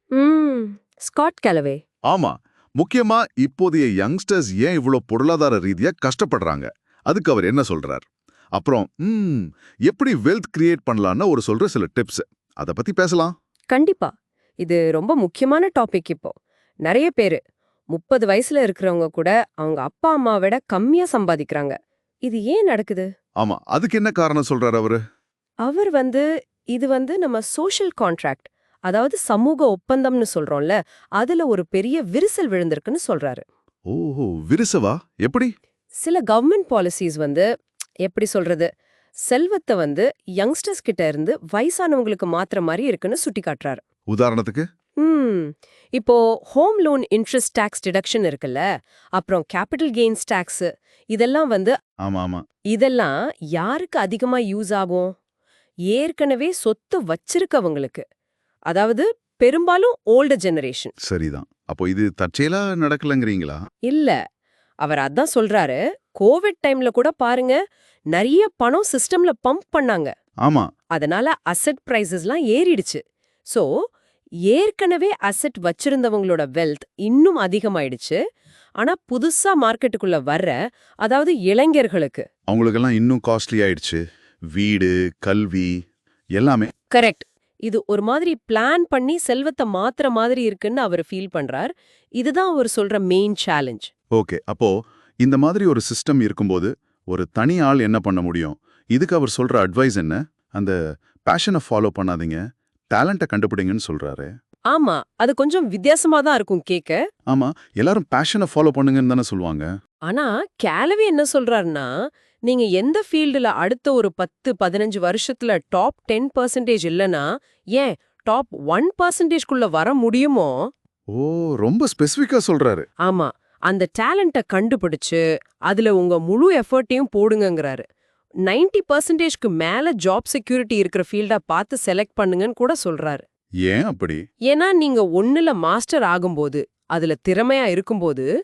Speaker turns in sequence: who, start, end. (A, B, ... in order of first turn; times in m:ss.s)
0:00.2-0:01.8 A
0:02.1-0:08.0 B
0:08.6-0:13.3 B
0:13.7-0:14.1 A
0:14.6-0:17.4 A
0:17.9-0:23.1 A
0:23.4-0:25.0 B
0:25.6-0:33.4 A
0:33.9-0:35.5 B
0:36.0-0:37.5 A
0:38.0-0:38.7 A
0:39.3-0:43.8 A
0:44.1-0:44.6 B
0:45.0-0:48.6 A
0:49.2-0:51.8 A
0:52.0-0:52.4 B
0:52.7-0:55.1 A
0:55.9-0:58.0 A
0:58.7-1:00.9 A
1:01.0-1:03.6 B
1:03.9-1:04.2 A
1:04.8-1:07.6 A
1:08.1-1:10.1 A
1:11.0-1:13.7 A
1:14.5-1:18.2 A
1:18.8-1:22.3 A
1:22.5-1:24.0 B
1:24.6-1:25.8 B
1:26.4-1:26.7 B
1:26.9-1:33.9 A
1:34.2-1:40.8 B
1:41.3-1:42.4 B
1:42.9-1:44.3 B
1:44.7-1:47.0 A
1:47.3-1:49.7 B
1:50.1-1:51.9 A
1:52.5-2:00.7 A
2:01.1-2:02.9 B
2:03.0-2:07.9 A
2:08.5-2:13.2 A
2:13.6-2:14.2 B
2:14.5-2:18.3 A